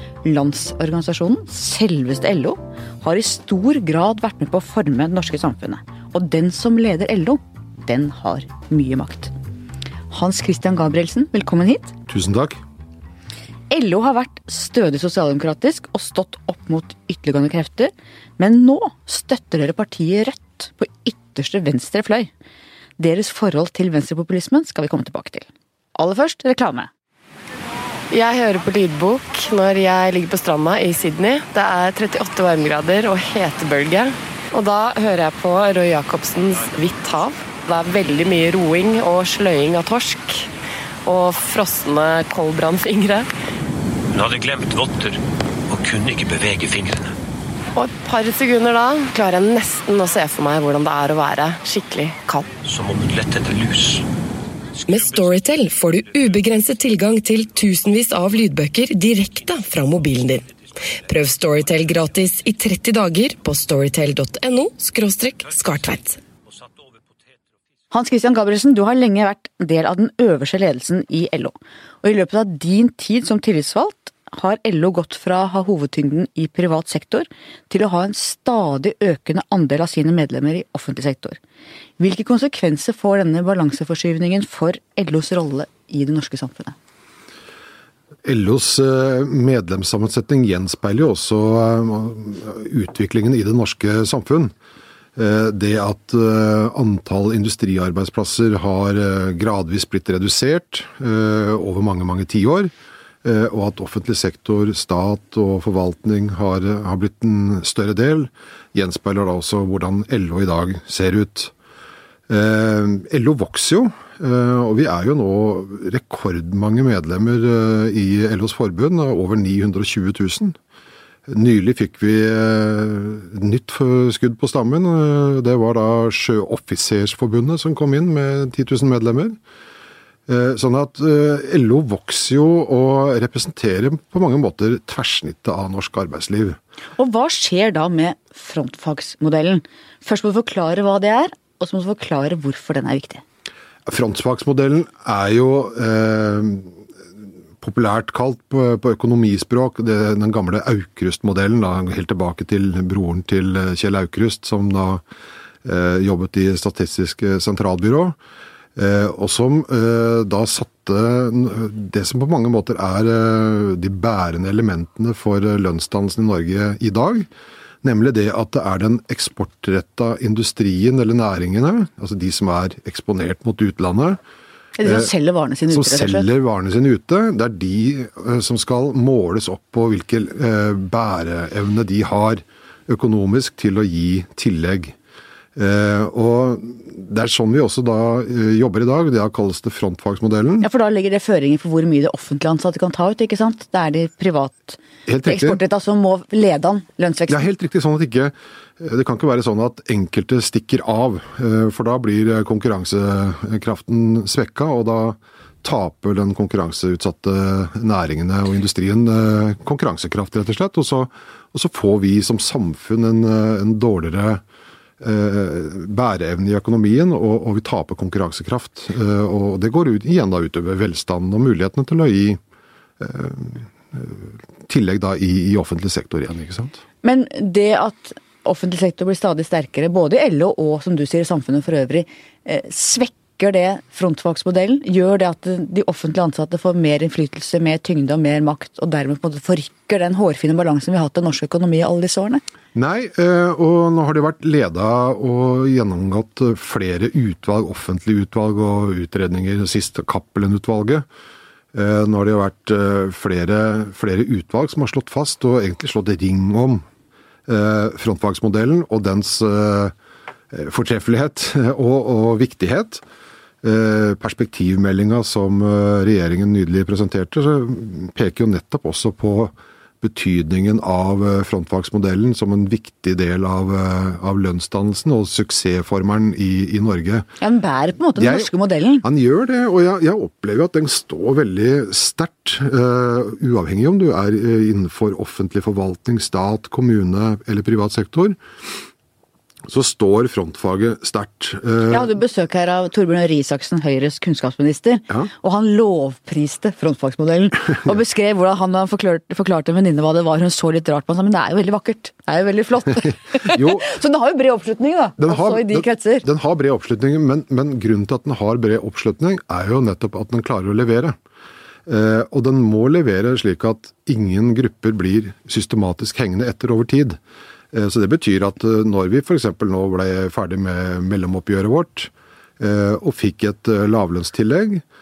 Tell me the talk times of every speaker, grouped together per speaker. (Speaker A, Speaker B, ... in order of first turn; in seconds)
Speaker A: 0.2-9.3, 10.1-11.9, 13.7-22.3, 23.0-26.9, 67.9-81.4, 82.0-86.8, 136.9-143.2, 174.8-176.3, 190.6-197.5, 227.0-242.4, 277.4-279.0, 291.9-306.2
Speaker B: 12.1-12.6, 88.2-94.5, 95.2-102.7, 103.2-111.5, 112.3-120.6, 121.3-129.4, 130.3-136.6, 143.9-146.8, 147.6-155.0, 155.6-158.2, 158.8-167.3, 167.8-174.2, 174.8-175.1, 175.7-184.9, 185.6-190.6, 195.1-195.6, 197.3-214.4, 215.0-222.4, 223.0-226.8, 242.7-251.0, 251.7-256.8, 257.5-259.9, 260.5-263.0, 263.6-277.3, 278.1-278.5, 279.0-288.4, 289.6-292.1, 303.4-303.9, 305.2-311.1, 311.9-317.2, 317.7-324.8
Speaker C: 28.1-40.5, 41.0-43.3, 47.7-52.5
Speaker D: 44.1-47.1, 52.6-54.0
Speaker E: 54.8-60.5, 61.0-66.2